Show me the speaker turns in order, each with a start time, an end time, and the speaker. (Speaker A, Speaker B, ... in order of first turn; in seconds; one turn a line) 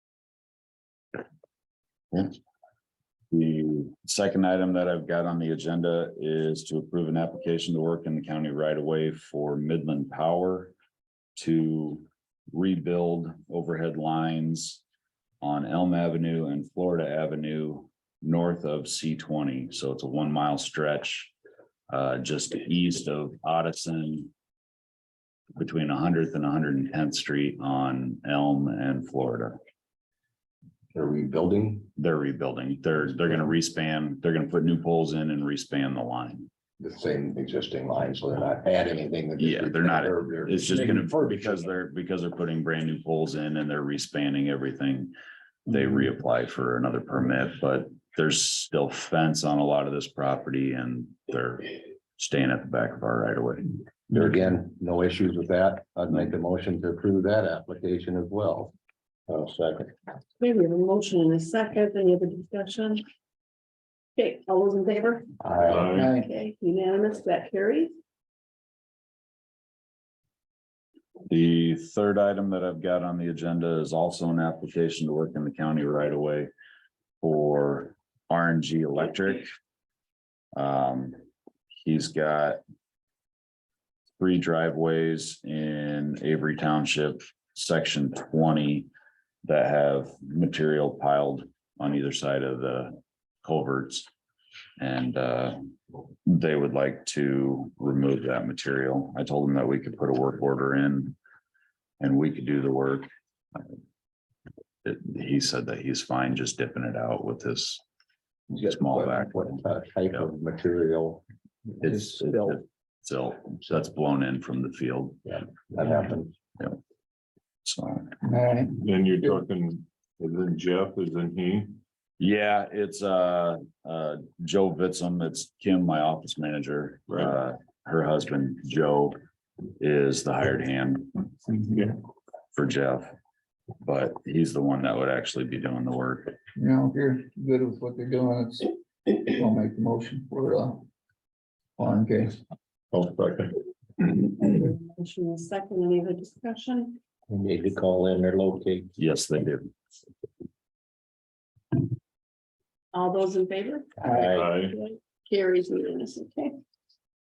Speaker A: 3.3-10.7
Speaker A: 11.3-14.8
Speaker A: 15.4-21.3
Speaker A: 21.9-24.3
Speaker A: 25.6-29.6
Speaker B: 30.9-31.9
Speaker A: 32.0-36.5
Speaker B: 36.8-41.6
Speaker A: 39.4-45.1
Speaker A: 45.7-53.8
Speaker B: 54.1-58.7
Speaker B: 59.3-59.9
Speaker C: 60.4-63.0
Speaker C: 64.2-65.3
Speaker B: 65.4-65.9
Speaker D: 65.7-66.1
Speaker E: 65.9-66.3
Speaker C: 66.0-67.9
Speaker A: 71.3-76.5
Speaker A: 77.2-79.5
Speaker A: 80.6-81.2
Speaker A: 81.7-82.6
Speaker A: 84.2-88.9
Speaker A: 89.4-94.1
Speaker A: 94.8-95.6
Speaker A: 96.2-101.2
Speaker A: 102.0-103.7
Speaker A: 104.8-107.8
Speaker A: 108.5-109.6
Speaker E: 108.6-109.2
Speaker B: 109.4-111.2
Speaker A: 111.8-115.3
Speaker E: 111.8-112.6
Speaker B: 115.3-116.3
Speaker A: 117.7-118.2
Speaker E: 118.2-118.8
Speaker D: 118.8-121.8
Speaker A: 122.2-129.1
Speaker D: 127.1-127.4
Speaker A: 129.8-131.3
Speaker A: 132.5-133.1
Speaker A: 133.8-136.4
Speaker E: 136.6-140.9
Speaker E: 141.8-142.4
Speaker D: 142.9-143.5
Speaker C: 144.2-147.0
Speaker B: 147.3-148.9
Speaker A: 149.0-149.7
Speaker C: 152.9-156.6
Speaker B: 154.1-154.4
Speaker D: 154.3-154.8